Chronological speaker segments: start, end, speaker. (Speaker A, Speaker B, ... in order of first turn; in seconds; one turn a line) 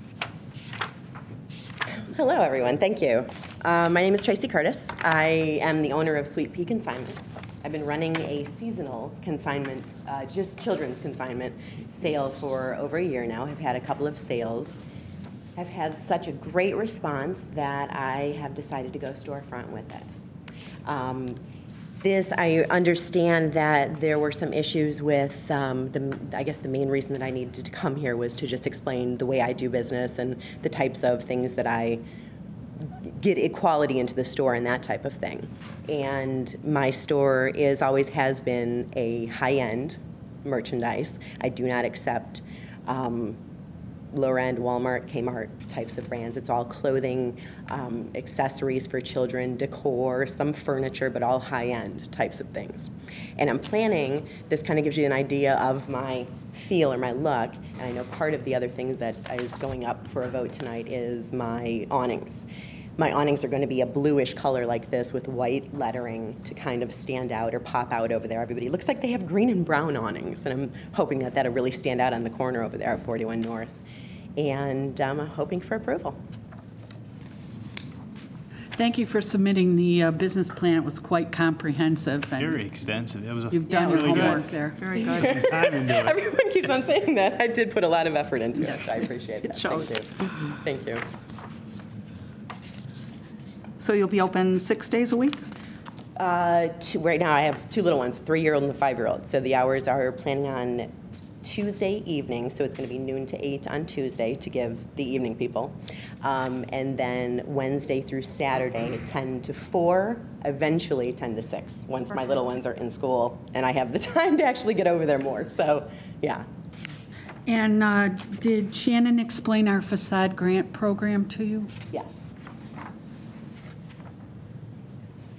Speaker A: 2.1-14.8
Speaker A: 15.6-20.2
Speaker A: 20.9-21.4
Speaker A: 22.0-32.0
Speaker A: 32.8-43.4
Speaker A: 44.1-62.5
Speaker A: 63.0-73.8
Speaker A: 74.4-76.2
Speaker B: 78.8-82.7
Speaker C: 82.4-84.4
Speaker B: 83.5-84.9
Speaker D: 83.7-85.7
Speaker A: 85.1-91.0
Speaker C: 85.2-86.2
Speaker D: 89.5-90.0
Speaker D: 93.8-95.4
Speaker A: 96.2-100.9
Speaker A: 101.4-116.5
Speaker B: 117.5-121.7
Speaker A: 121.9-122.3